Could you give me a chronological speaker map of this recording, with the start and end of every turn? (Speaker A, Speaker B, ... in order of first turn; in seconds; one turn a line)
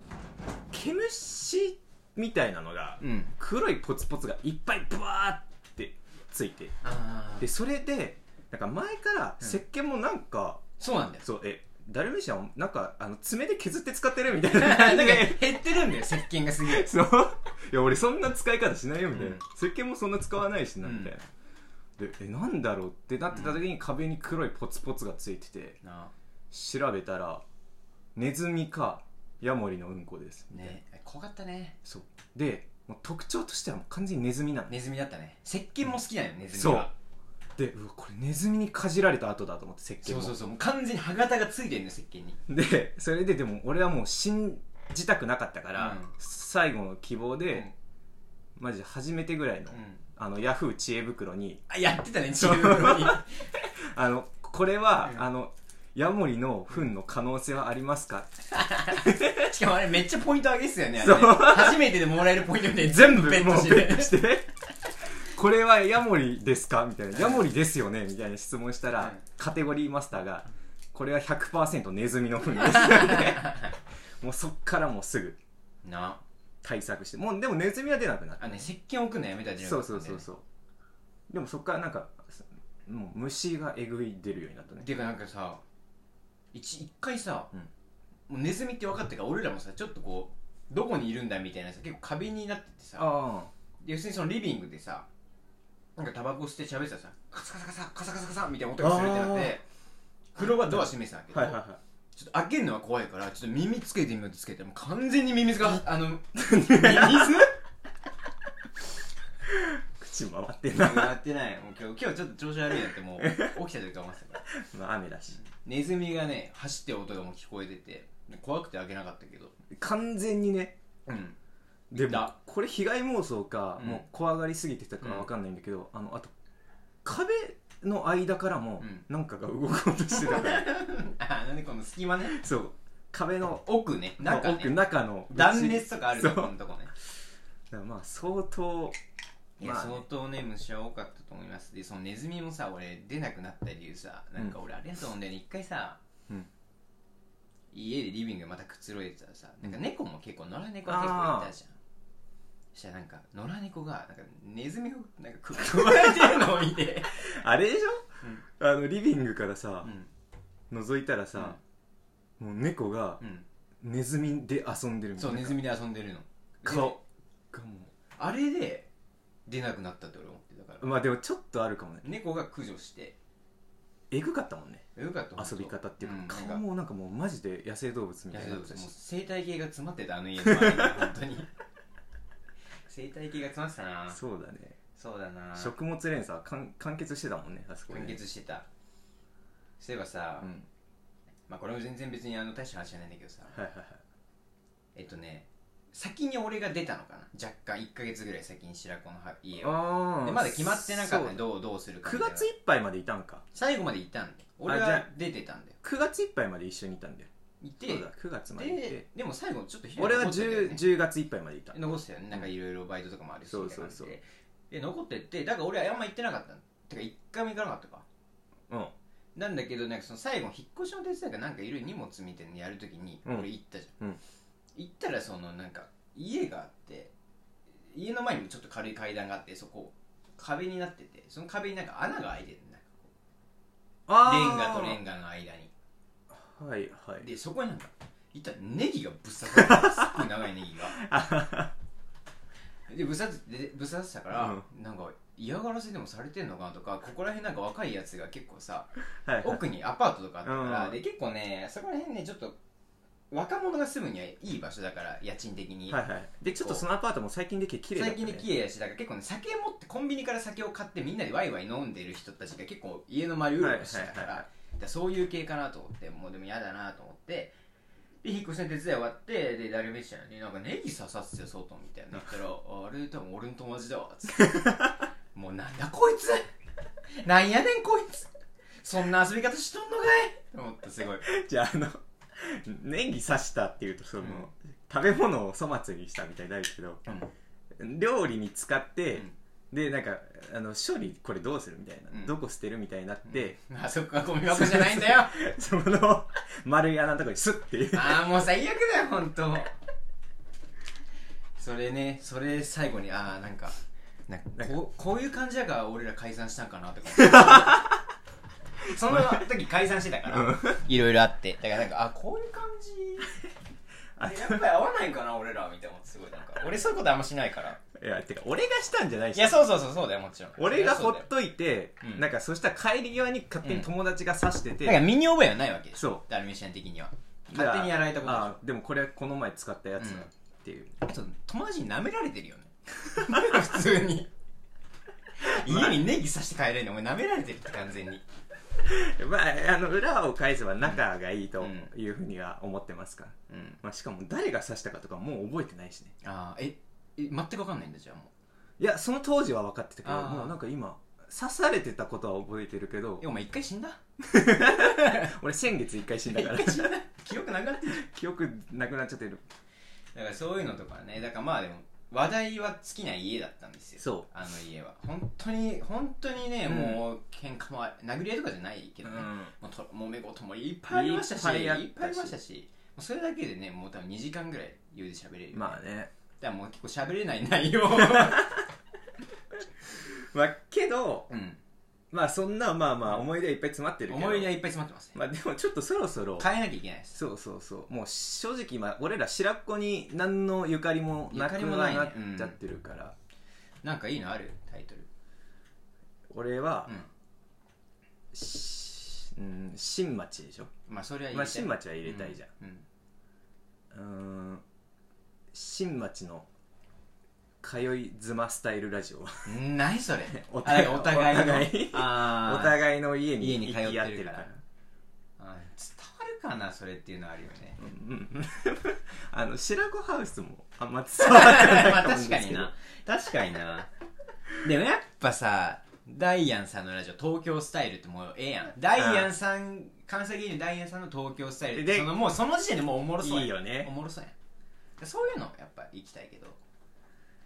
Speaker A: 0.7-6.7
Speaker B: 3.0-3.3
Speaker B: 6.8-7.5
Speaker A: 7.4-10.6
Speaker B: 10.8-11.3
Speaker A: 11.2-15.6
Speaker B: 14.5-16.9
Speaker A: 16.6-21.2
Speaker B: 19.1-19.4
Speaker B: 20.8-21.1
Speaker A: 22.0-25.8
Speaker B: 23.3-23.6
Speaker B: 25.8-26.1
Speaker A: 26.5-27.4
Speaker A: 28.1-30.8
Speaker B: 30.5-31.8
Speaker A: 31.9-34.7
Speaker B: 34.7-36.9
Speaker A: 36.5-36.9
Speaker A: 37.6-40.4
Speaker B: 40.0-42.4
Speaker A: 42.5-47.7
Speaker B: 45.8-46.1
Speaker A: 48.6-51.6
Speaker B: 49.7-50.0
Speaker B: 51.7-53.5
Speaker A: 52.4-53.2
Speaker A: 53.8-58.3
Speaker B: 58.5-64.2
Speaker A: 59.0-59.5
Speaker A: 61.0-61.8
Speaker A: 62.8-64.5
Speaker A: 65.1-75.4
Speaker B: 67.2-67.4
Speaker B: 72.7-73.7
Speaker B: 75.8-76.2
Speaker A: 76.6-78.6
Speaker B: 78.4-80.3
Speaker A: 79.6-80.4
Speaker A: 81.3-84.9
Speaker B: 84.8-85.6
Speaker B: 86.5-87.5
Speaker B: 88.3-93.1
Speaker A: 93.0-93.5
Speaker B: 93.8-95.1
Speaker B: 96.0-99.6
Speaker A: 98.8-99.6
Speaker B: 100.3-101.6
Speaker A: 101.3-101.8
Speaker B: 102.2-107.5
Speaker A: 106.3-107.5
Speaker A: 109.5-111.1
Speaker B: 110.7-114.5
Speaker A: 113.2-113.5
Speaker A: 114.5-115.4
Speaker B: 115.4-119.5
Speaker A: 119.7-120.8
Speaker B: 121.1-121.4
Speaker A: 121.9-126.3
Speaker B: 122.0-122.3
Speaker B: 123.8-124.0
Speaker B: 125.0-125.3
Speaker A: 127.0-130.7
Speaker B: 128.8-129.1
Speaker B: 130.2-132.4
Speaker A: 132.3-133.7
Speaker B: 133.7-134.8
Speaker A: 134.2-136.5
Speaker B: 135.3-136.9
Speaker A: 137.7-139.0
Speaker B: 139.6-146.0
Speaker A: 139.6-140.0
Speaker B: 147.7-151.8
Speaker A: 150.9-151.5
Speaker B: 152.8-157.4
Speaker A: 155.6-156.6
Speaker A: 157.1-159.9
Speaker B: 159.8-160.1
Speaker A: 160.7-161.6
Speaker A: 162.4-163.2
Speaker B: 163.2-163.5
Speaker A: 163.8-165.6
Speaker B: 165.2-167.0
Speaker A: 166.7-167.0
Speaker A: 167.5-167.9
Speaker B: 168.2-168.9
Speaker B: 169.5-170.9
Speaker A: 170.8-172.1
Speaker B: 172.0-173.2
Speaker A: 174.1-178.9
Speaker B: 175.0-176.6
Speaker B: 178.3-181.5
Speaker A: 180.5-181.1
Speaker B: 182.9-184.2
Speaker A: 184.1-184.8
Speaker B: 185.0-185.7
Speaker A: 185.6-188.2
Speaker B: 187.9-188.7
Speaker B: 189.8-190.5
Speaker A: 190.4-190.7
Speaker B: 191.5-193.6
Speaker A: 193.5-194.0
Speaker B: 194.9-202.5
Speaker A: 199.6-201.4
Speaker A: 202.0-203.4
Speaker B: 203.5-205.8
Speaker A: 204.7-205.1
Speaker A: 205.8-207.3
Speaker B: 207.6-210.8
Speaker A: 207.8-209.1
Speaker A: 210.0-211.8
Speaker B: 211.7-218.1
Speaker A: 213.5-214.1
Speaker B: 219.3-223.9
Speaker B: 224.8-227.1
Speaker B: 227.9-233.1
Speaker A: 234.1-235.0
Speaker B: 234.2-235.7
Speaker A: 236.4-237.3
Speaker B: 237.2-241.0
Speaker A: 239.5-240.3
Speaker A: 240.9-241.7
Speaker B: 242.9-252.6
Speaker A: 244.3-244.6
Speaker A: 249.2-249.6
Speaker A: 250.4-251.0
Speaker B: 253.3-256.8
Speaker A: 255.9-258.5
Speaker B: 257.9-267.6
Speaker A: 263.6-264.4
Speaker B: 268.2-274.7
Speaker A: 274.5-274.9
Speaker B: 275.4-276.5
Speaker B: 277.2-278.3
Speaker B: 278.8-281.3
Speaker A: 281.2-287.0
Speaker B: 284.2-284.5
Speaker B: 287.1-287.3
Speaker A: 287.8-293.6
Speaker B: 293.3-295.4
Speaker A: 294.5-298.2
Speaker B: 297.9-299.7
Speaker B: 301.6-303.8
Speaker B: 304.3-307.9
Speaker A: 307.1-308.0
Speaker B: 308.9-313.4
Speaker A: 308.9-309.4
Speaker A: 310.3-310.8
Speaker A: 314.2-314.6
Speaker B: 314.2-317.8
Speaker A: 317.9-319.6
Speaker B: 319.4-321.3
Speaker A: 320.6-325.1
Speaker B: 323.6-323.9
Speaker B: 324.8-328.6
Speaker A: 327.5-331.0
Speaker B: 330.0-330.3
Speaker B: 331.0-334.3
Speaker A: 333.3-333.6
Speaker B: 335.4-338.2
Speaker A: 335.4-336.0
Speaker A: 338.8-346.1
Speaker B: 341.6-341.9
Speaker B: 343.5-343.8
Speaker B: 346.2-348.3
Speaker A: 348.8-353.2
Speaker B: 350.0-350.6
Speaker B: 353.2-354.0
Speaker A: 354.2-356.9
Speaker B: 354.6-355.3
Speaker B: 356.3-358.1
Speaker A: 357.9-359.4
Speaker B: 360.1-375.8
Speaker A: 364.0-364.3
Speaker A: 366.7-367.0
Speaker A: 369.0-369.5
Speaker A: 370.9-372.3
Speaker A: 375.5-376.1
Speaker B: 376.4-378.6
Speaker A: 377.9-378.6
Speaker A: 379.9-381.3
Speaker B: 381.3-381.6
Speaker A: 382.1-384.6
Speaker B: 384.1-385.2
Speaker A: 385.1-386.5
Speaker B: 386.4-387.2
Speaker A: 387.1-393.2
Speaker B: 391.3-392.6
Speaker B: 393.8-395.1
Speaker A: 396.3-397.0
Speaker A: 398.3-400.7
Speaker B: 400.9-402.9
Speaker A: 401.3-402.5
Speaker A: 403.9-404.6
Speaker A: 405.5-406.5
Speaker A: 407.6-409.5
Speaker B: 409.5-412.8
Speaker A: 410.3-414.6
Speaker B: 413.4-414.5
Speaker B: 415.4-417.8
Speaker A: 417.8-422.7
Speaker B: 421.2-423.9
Speaker B: 424.6-434.4
Speaker A: 429.0-429.3
Speaker A: 431.8-432.1
Speaker A: 433.2-433.9
Speaker B: 435.0-436.6